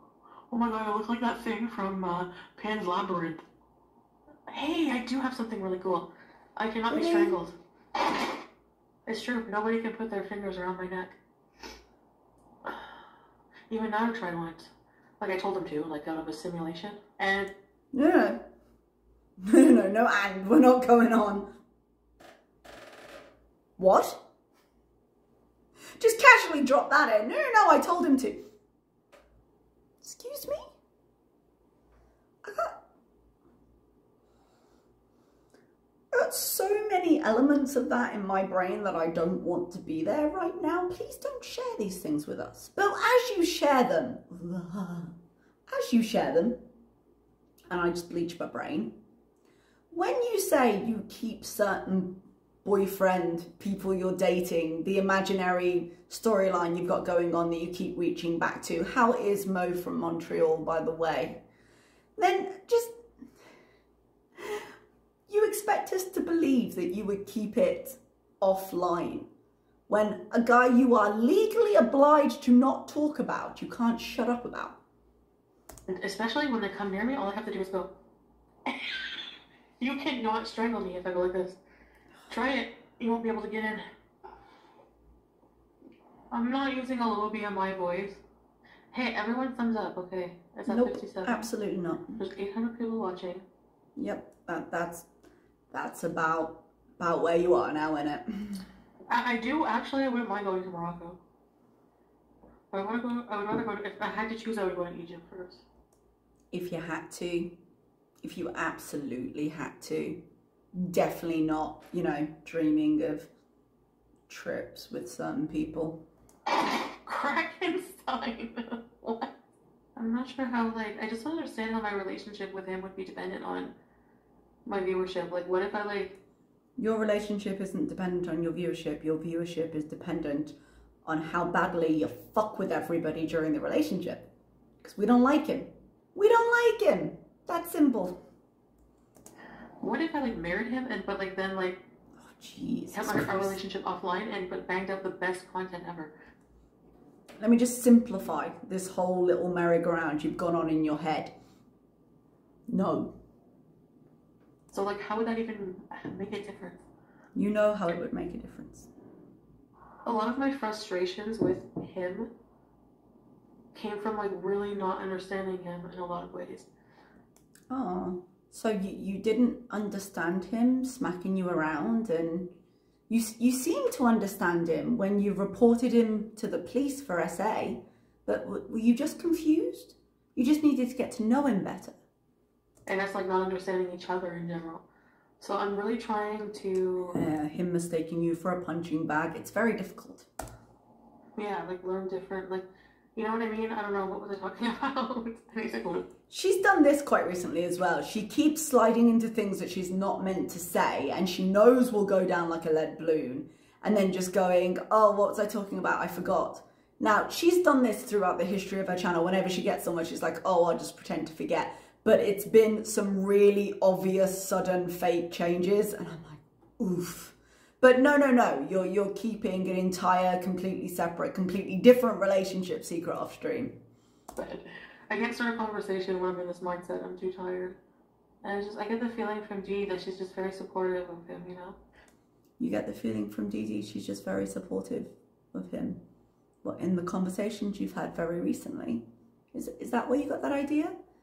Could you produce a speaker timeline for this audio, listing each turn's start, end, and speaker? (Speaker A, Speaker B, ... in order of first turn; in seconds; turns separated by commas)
Speaker A: 0.5-3.4, Speaker A: 4.5-7.5, Speaker B: 6.9-7.3, Speaker A: 9.1-11.2, Speaker A: 12.6-12.9, Speaker A: 13.7-17.5, Speaker B: 17.9-18.4, Speaker B: 19.4-21.5, Speaker B: 23.8-24.2, Speaker B: 26.0-28.4, Speaker B: 30.0-30.7, Speaker B: 32.4-32.7, Speaker B: 36.1-45.1, Speaker B: 45.7-46.6, Speaker B: 47.7-49.0, Speaker B: 49.9-61.4, Speaker B: 62.2-62.9, Speaker B: 64.4-64.7, Speaker B: 65.3-69.3, Speaker B: 69.9-74.8, Speaker A: 75.9-77.9, Speaker A: 78.7-81.6, Speaker A: 82.3-83.8, Speaker A: 86.3-88.2, Speaker A: 88.9-91.4, Speaker B: 90.7-92.2, Speaker A: 92.2-93.4, Speaker B: 94.0-95.1, Speaker B: 95.7-98.6, Speaker A: 99.1-101.2, Speaker A: 102.7-105.6, Speaker B: 106.5-107.5, Speaker B: 108.2-110.2, Speaker B: 110.7-113.3, Speaker B: 114.3-116.0, Speaker A: 117.0-119.3, Speaker A: 120.0-123.7, Speaker A: 124.6-126.1, Speaker B: 126.8-130.5, Speaker B: 131.1-134.3, Speaker B: 134.8-138.2, Speaker A: 139.8-141.8, Speaker B: 142.2-143.6, Speaker A: 142.9-146.1, Speaker B: 147.4-151.3, Speaker B: 152.7-153.1, Speaker A: 154.7-156.8, Speaker B: 157.3-158.9, Speaker A: 160.0-162.3, Speaker A: 163.7-166.7, Speaker B: 167.7-172.5, Speaker B: 173.1-181.9, Speaker A: 182.8-184.8, Speaker A: 185.4-187.2, Speaker B: 187.1-190.3, Speaker A: 191.3-192.6, Speaker A: 193.2-196.1, Speaker B: 196.3-223.7, Speaker A: 224.3-227.8, Speaker A: 228.4-231.8, Speaker B: 232.6-236.0, Speaker B: 236.6-240.9